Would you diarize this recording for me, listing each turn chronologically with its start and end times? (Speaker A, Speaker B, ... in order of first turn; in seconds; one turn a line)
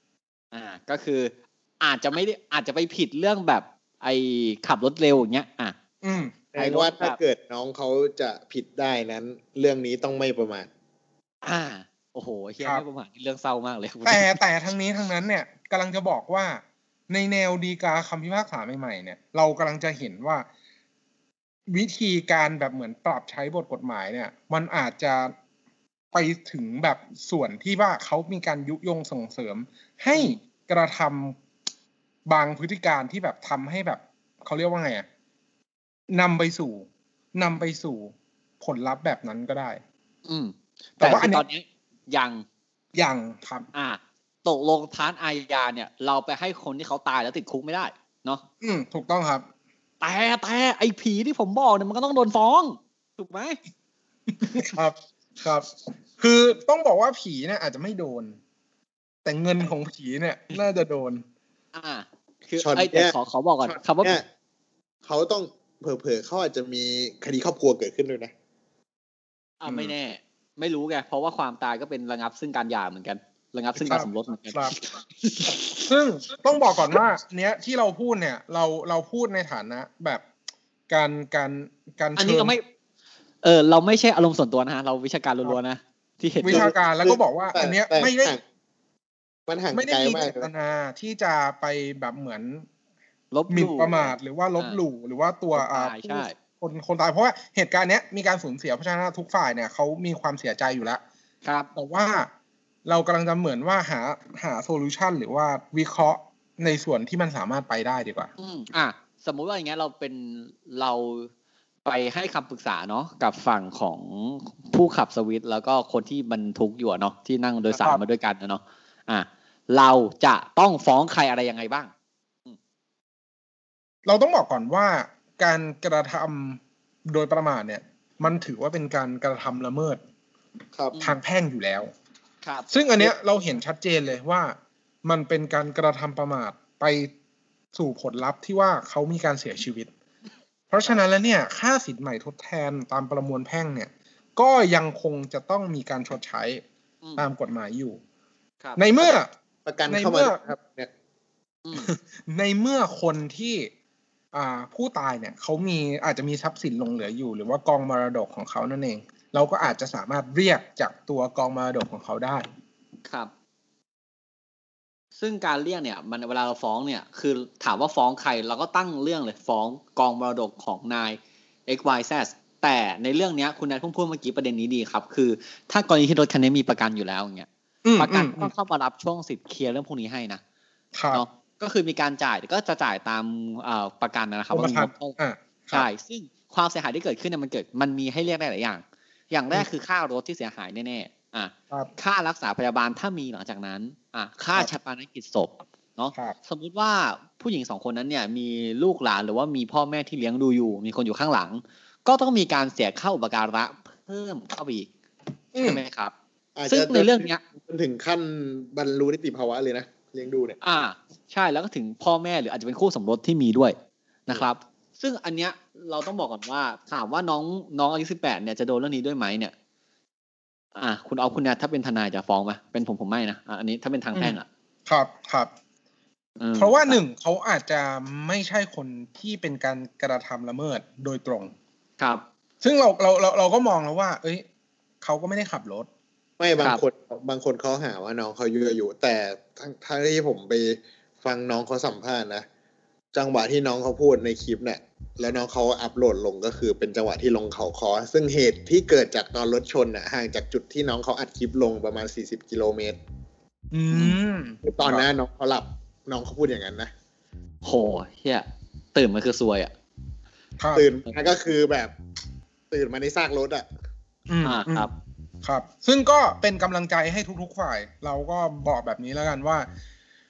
Speaker A: 0.5-5.8
Speaker B: 6.0-6.4
Speaker C: 6.5-10.7
Speaker A: 6.6-7.2
Speaker A: 11.4-14.4
Speaker B: 14.1-20.5
Speaker B: 21.7-25.3
Speaker B: 26.1-31.4
Speaker A: 30.1-30.4
Speaker B: 32.3-35.1
Speaker B: 36.1-39.8
Speaker A: 40.3-42.5
Speaker B: 41.0-41.5
Speaker B: 43.0-43.7
Speaker A: 43.7-48.4
Speaker B: 48.6-49.5
Speaker A: 50.0-53.6
Speaker B: 54.4-58.4
Speaker B: 59.2-61.2
Speaker A: 61.7-64.2
Speaker C: 62.6-64.2
Speaker C: 65.0-68.3
Speaker A: 69.6-75.9
Speaker B: 69.7-70.0
Speaker B: 73.8-74.8
Speaker B: 75.8-80.2
Speaker B: 80.9-82.6
Speaker A: 82.2-82.6
Speaker A: 83.4-86.7
Speaker B: 86.4-88.4
Speaker C: 86.5-88.4
Speaker C: 89.5-90.5
Speaker B: 89.7-92.7
Speaker A: 93.3-94.8
Speaker B: 93.5-101.0
Speaker A: 95.5-96.3
Speaker A: 101.4-101.7
Speaker B: 101.8-102.3
Speaker B: 102.9-108.3
Speaker A: 108.4-111.3
Speaker A: 111.8-121.9
Speaker B: 117.7-118.0
Speaker B: 124.1-130.0
Speaker C: 130.8-131.0
Speaker B: 131.0-131.9
Speaker A: 132.4-132.7
Speaker B: 132.7-137.1
Speaker B: 137.7-139.9
Speaker B: 140.7-146.6
Speaker B: 147.2-148.0
Speaker B: 148.8-149.3
Speaker C: 149.0-150.9
Speaker B: 149.9-150.4
Speaker A: 151.7-151.9
Speaker B: 151.8-153.7
Speaker B: 154.3-162.4
Speaker A: 165.2-177.5
Speaker B: 177.8-178.5
Speaker A: 178.0-180.4
Speaker B: 180.9-181.2
Speaker A: 181.1-185.2
Speaker B: 184.5-185.9
Speaker A: 185.7-204.9
Speaker B: 205.6-205.8
Speaker A: 205.6-206.1
Speaker C: 206.6-210.6
Speaker A: 206.7-207.4
Speaker A: 210.6-213.8
Speaker A: 214.3-219.5
Speaker A: 220.8-224.5
Speaker B: 224.1-225.5
Speaker A: 226.4-227.0
Speaker B: 226.6-231.5
Speaker B: 232.6-234.4
Speaker B: 235.0-235.9
Speaker C: 236.4-242.5
Speaker A: 236.6-236.8
Speaker C: 243.1-253.0
Speaker B: 253.7-255.1
Speaker C: 254.7-256.9
Speaker A: 257.6-259.7
Speaker B: 260.6-260.8
Speaker C: 260.7-261.9
Speaker C: 262.7-263.7
Speaker B: 264.3-264.9
Speaker A: 264.4-264.9
Speaker B: 265.4-269.7